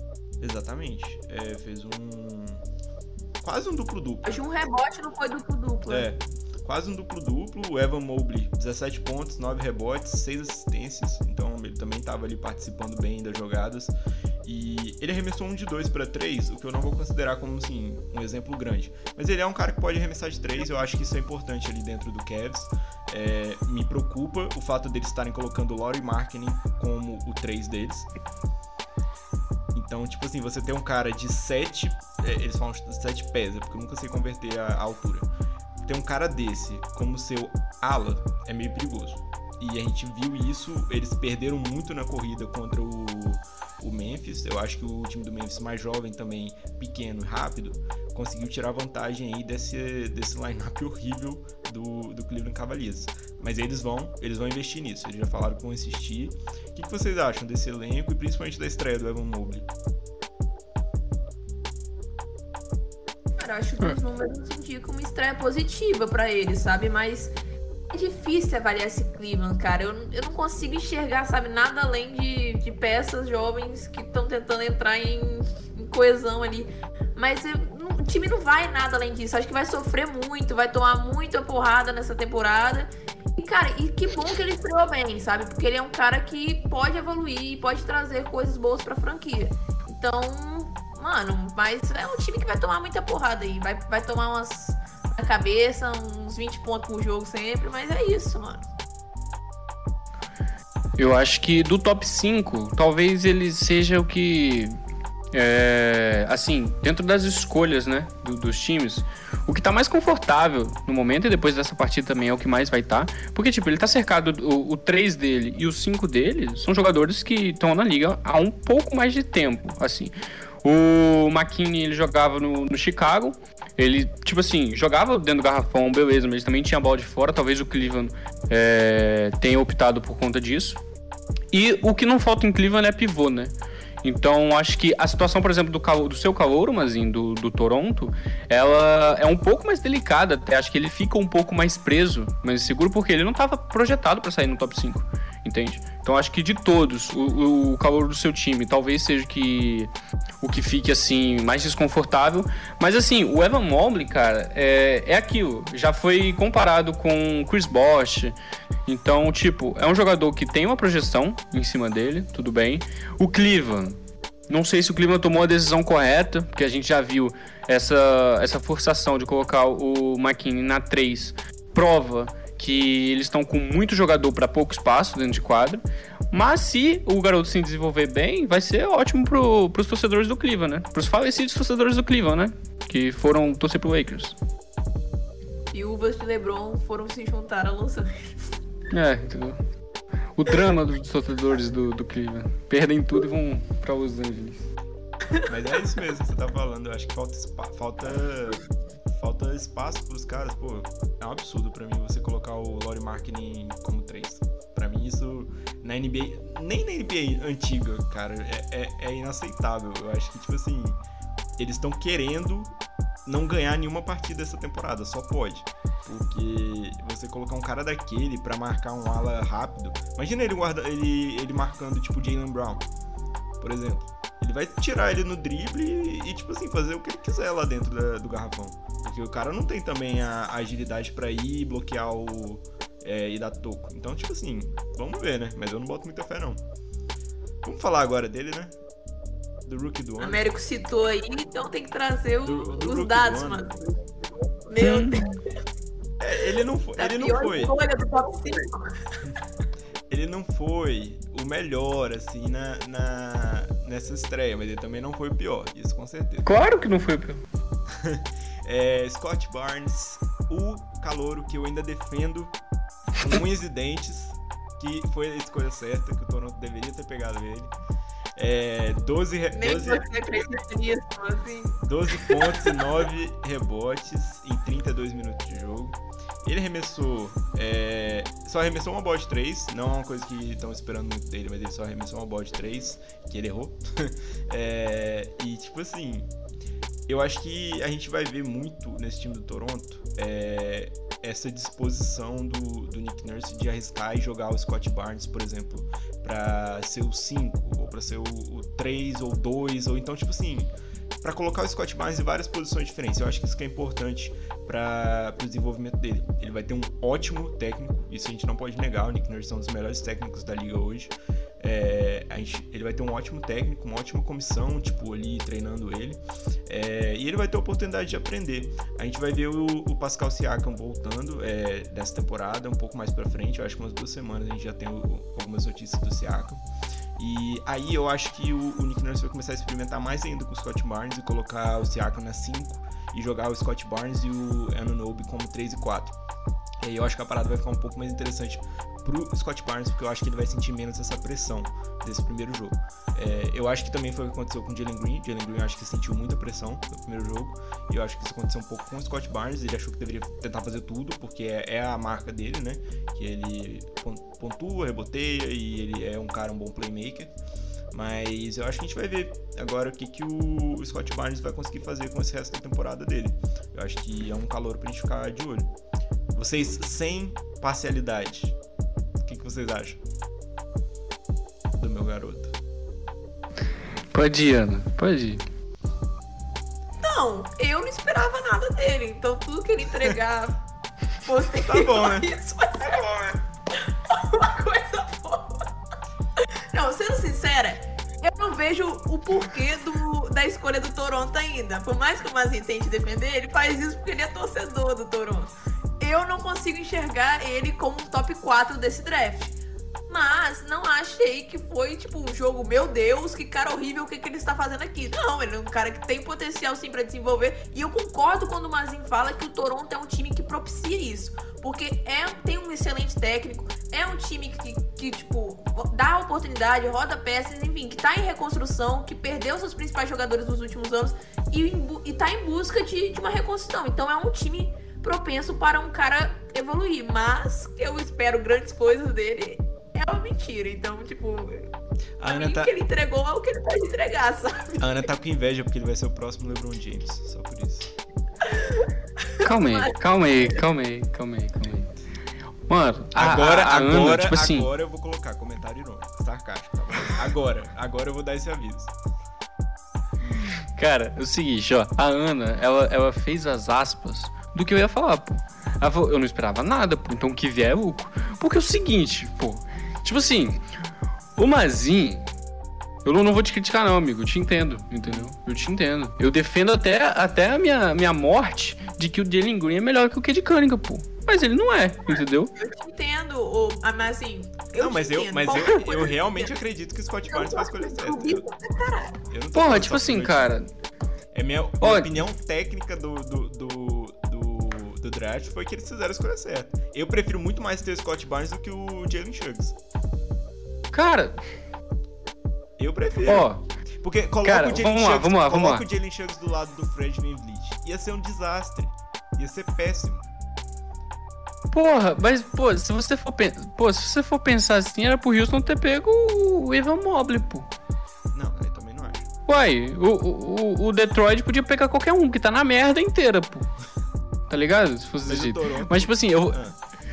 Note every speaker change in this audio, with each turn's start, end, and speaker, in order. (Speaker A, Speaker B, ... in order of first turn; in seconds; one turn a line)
Speaker A: 0.4-2.6
Speaker A: 3.4-4.4
Speaker B: 4.3-6.1
Speaker A: 5.9-28.1
Speaker A: 29.7-35.3
Speaker A: 35.8-59.7
Speaker B: 63.4-67.3
Speaker B: 67.9-98.7
Speaker C: 101.0-104.8
Speaker C: 105.3-120.1
Speaker C: 120.6-130.8
Speaker C: 131.5-133.5
Speaker C: 134.0-149.9
Speaker C: 150.4-158.3
Speaker C: 158.9-164.0
Speaker C: 164.5-184.4
Speaker B: 185.7-188.4
Speaker C: 188.9-189.6
Speaker C: 190.3-194.7
Speaker A: 195.5-211.0
Speaker A: 211.6-222.9
Speaker A: 223.6-236.6
Speaker A: 237.6-238.8
Speaker A: 239.7-240.4
Speaker B: 240.2-243.9
Speaker A: 242.4-243.6
Speaker B: 244.7-245.4
Speaker C: 244.8-245.2
Speaker A: 246.2-247.8
Speaker B: 247.0-249.0
Speaker A: 250.1-256.5
Speaker C: 256.4-257.4
Speaker A: 257.9-262.6
Speaker A: 263.2-267.7
Speaker A: 268.4-270.1
Speaker B: 269.5-272.8
Speaker A: 271.8-286.3
Speaker A: 287.1-326.6
Speaker A: 327.2-336.2
Speaker A: 336.8-357.3
Speaker A: 357.9-365.7
Speaker A: 366.3-368.6
Speaker A: 369.2-370.0
Speaker A: 371.8-372.5
Speaker C: 374.1-375.4
Speaker B: 377.0-380.6
Speaker B: 381.2-385.6
Speaker A: 381.6-382.3
Speaker B: 386.4-399.6
Speaker B: 400.1-431.7
Speaker A: 432.2-432.7
Speaker B: 432.2-434.8
Speaker A: 434.8-437.9
Speaker B: 438.4-440.6
Speaker C: 439.4-441.9
Speaker C: 442.7-444.7
Speaker A: 443.2-448.9
Speaker C: 450.6-460.6
Speaker C: 461.4-462.2
Speaker C: 463.1-472.5
Speaker B: 472.6-476.5
Speaker A: 474.8-478.4
Speaker B: 477.3-479.2
Speaker A: 479.3-480.6
Speaker C: 479.5-480.7
Speaker A: 481.3-489.8
Speaker C: 481.8-482.2
Speaker C: 490.9-491.4
Speaker A: 492.8-500.3
Speaker C: 493.3-493.6
Speaker C: 494.4-495.9
Speaker C: 501.7-507.7
Speaker A: 508.3-509.3
Speaker C: 509.5-513.7
Speaker C: 514.5-516.6
Speaker A: 515.3-516.8